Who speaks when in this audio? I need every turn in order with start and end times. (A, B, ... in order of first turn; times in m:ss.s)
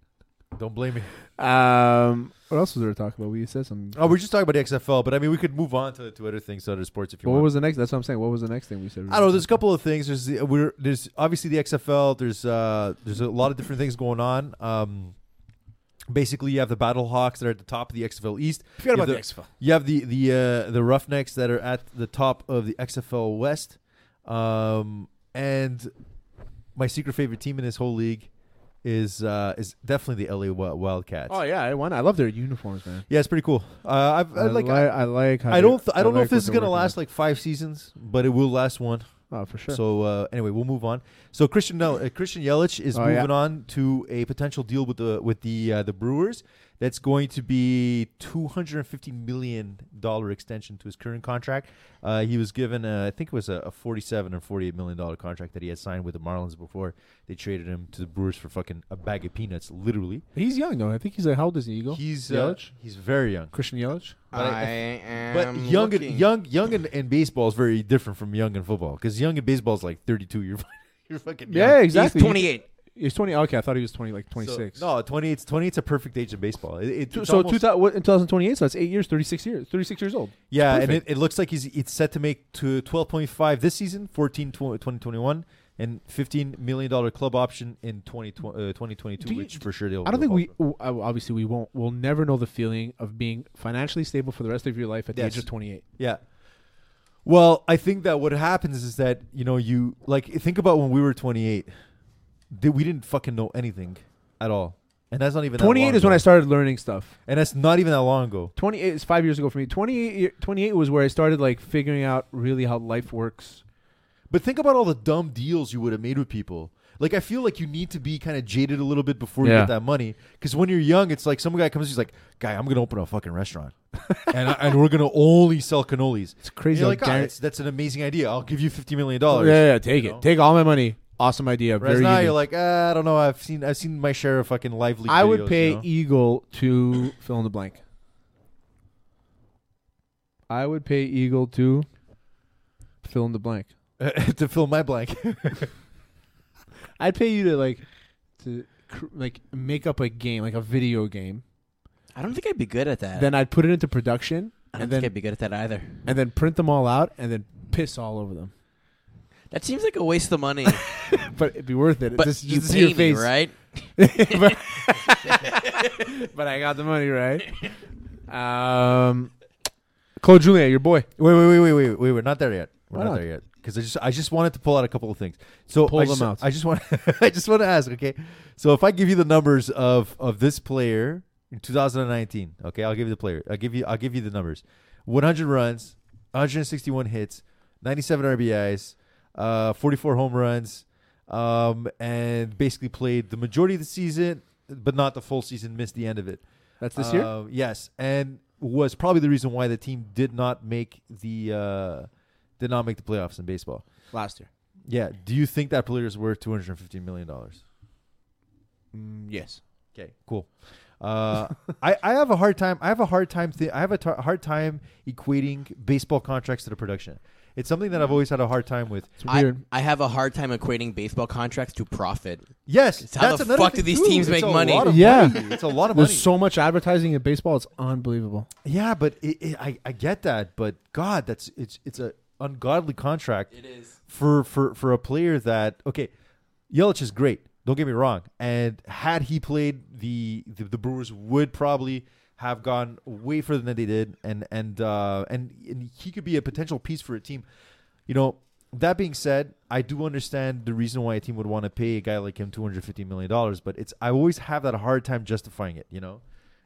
0:00.5-0:01.1 A
0:01.4-0:04.0 B
0:03.9-0:07.5 A
0:07.2-0:09.5 B
0:09.1-0:15.1 A
0:16.1-0:25.9 A
0:18.8-0:19.5 B
0:26.8-0:28.3 A
0:28.8-0:31.4 A
0:31.3-0:33.0 B
0:33.1-0:34.9 A
0:34.3-0:37.0 B
0:35.5-0:39.1 A
0:39.3-0:39.8 B
0:39.7-1:00.2 A
0:42.9-0:43.3 B
1:00.3-1:02.7 B
1:01.9-1:03.5 A
1:03.5-1:04.2 B
1:04.3-1:04.8 A
1:04.3-1:06.3 C
1:05.3-1:11.8 A
1:11.5-1:14.8 B
1:11.9-1:12.6 C
1:14.4-1:17.6 A
1:17.1-1:21.0 B
1:20.5-1:30.5 A
1:29.2-1:35.8 B
1:35.1-1:36.2 A
1:37.2-1:41.7 A
1:42.5-1:46.2 A
1:45.6-1:47.1 B
1:47.3-1:48.5 A
1:48.6-1:53.6 B
1:54.3-2:03.7 A
1:59.4-1:59.7 B
2:04.0-2:04.3 B
2:04.3-2:10.2 A
2:06.4-2:07.3 B
2:09.3-2:12.4 B
2:11.8-2:15.8 A
2:15.1-2:17.8 B
2:20.5-2:21.9 B
2:23.0-2:23.7 B
2:24.0-2:25.7 A
2:27.0-2:27.8 B
2:28.4-2:31.4 B
2:32.1-2:33.3 C
2:33.1-2:35.1 B
2:34.8-2:36.0 C
2:36.0-2:38.5 B
2:39.5-2:40.9 C
2:40.9-2:43.3 B
2:42.2-2:46.1 C
2:44.0-2:47.7 B
2:48.3-2:49.3 B
2:50.2-2:51.1 B
2:51.2-3:16.4 A
2:52.9-2:53.2 B
2:55.8-2:56.4 B
3:16.8-3:17.3 B
3:16.9-3:22.1 A
3:22.6-3:23.8 A
3:24.1-3:24.5 B
3:24.9-3:27.6 A
3:28.9-3:29.6 B
3:29.9-3:39.2 A
3:39.2-3:39.6 B
3:39.3-3:42.4 C
3:42.7-3:46.3 A
3:43.0-3:45.4 C
3:44.8-3:48.5 B
3:48.6-3:53.5 A
3:53.5-3:53.9 C
3:54.1-3:56.1 A
3:56.7-4:07.4 A
4:08.1-4:16.2 A